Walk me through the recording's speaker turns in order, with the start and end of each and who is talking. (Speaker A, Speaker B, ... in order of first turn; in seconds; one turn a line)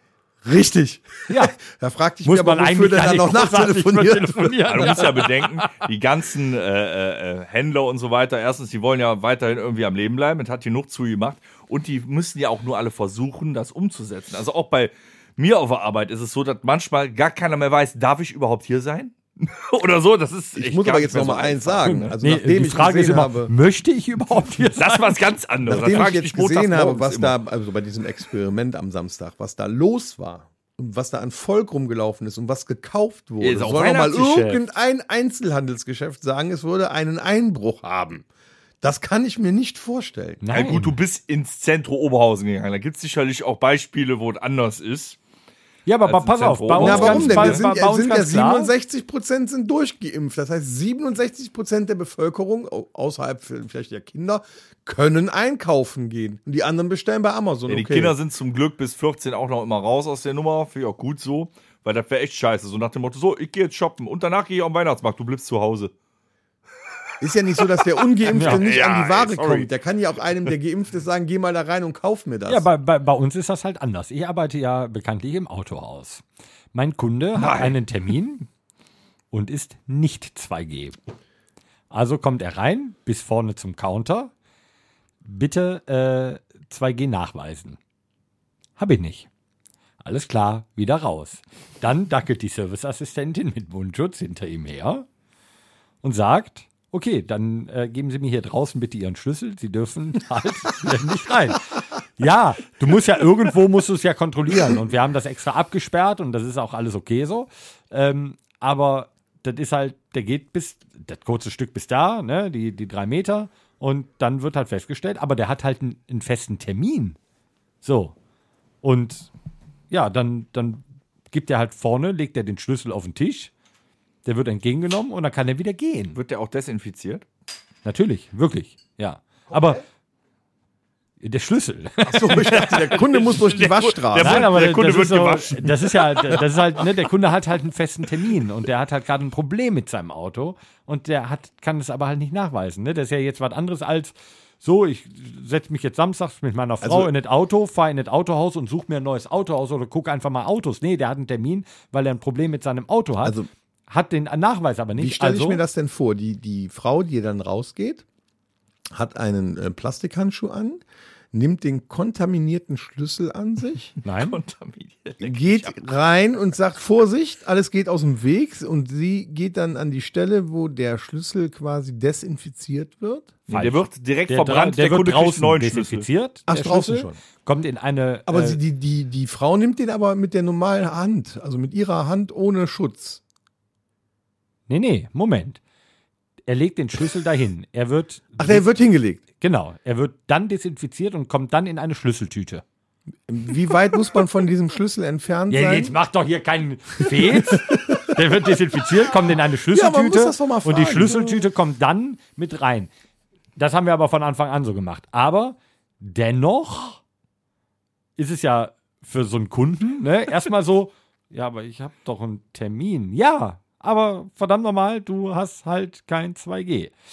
Speaker A: 0.4-5.0
Speaker B: 1.3-1.6
Speaker B: 2.2-5.8
Speaker C: 4.7-22.1
Speaker A: 20.6-23.5
Speaker B: 22.2-25.1
Speaker C: 24.8-27.4
Speaker A: 25.6-38.2
Speaker C: 33.4-34.6
Speaker A: 38.8-40.4
Speaker B: 40.4-40.9
Speaker C: 40.5-45.2
Speaker B: 45.9-48.7
Speaker C: 46.0-47.6
Speaker A: 46.8-58.1
Speaker C: 57.7-65.9
Speaker A: 67.2-72.7
Speaker C: 68.2-69.7
Speaker B: 68.3-68.6
Speaker B: 72.5-76.2
Speaker B: 76.7-78.5
Speaker C: 77.4-77.8
Speaker B: 79.3-81.0
Speaker B: 81.9-84.3
Speaker B: 85.2-87.8
Speaker B: 88.8-89.3
Speaker B: 90.0-95.0
Speaker B: 96.0-117.2
Speaker B: 117.8-118.2
Speaker B: 118.8-119.3
Speaker B: 119.9-123.5
Speaker B: 124.2-126.2
Speaker C: 126.1-127.2
Speaker B: 127.8-129.8
Speaker B: 131.2-132.3
Speaker A: 132.1-134.5
Speaker C: 132.2-136.4
Speaker B: 134.2-155.6
Speaker A: 146.8-147.1
Speaker A: 153.2-153.5
Speaker A: 155.0-158.0
Speaker A: 158.9-163.9
Speaker B: 164.0-164.4
Speaker C: 164.1-165.9
Speaker A: 165.2-173.4
Speaker C: 173.5-176.1
Speaker B: 173.5-178.6
Speaker A: 176.5-177.2
Speaker A: 178.3-183.2
Speaker B: 184.7-185.6
Speaker B: 186.5-188.7
Speaker A: 188.4-189.2
Speaker B: 189.4-192.6
Speaker A: 193.3-195.9
Speaker B: 195.5-202.9
Speaker A: 197.3-198.0
Speaker A: 199.7-201.5
Speaker B: 203.6-207.0
Speaker B: 208.2-216.9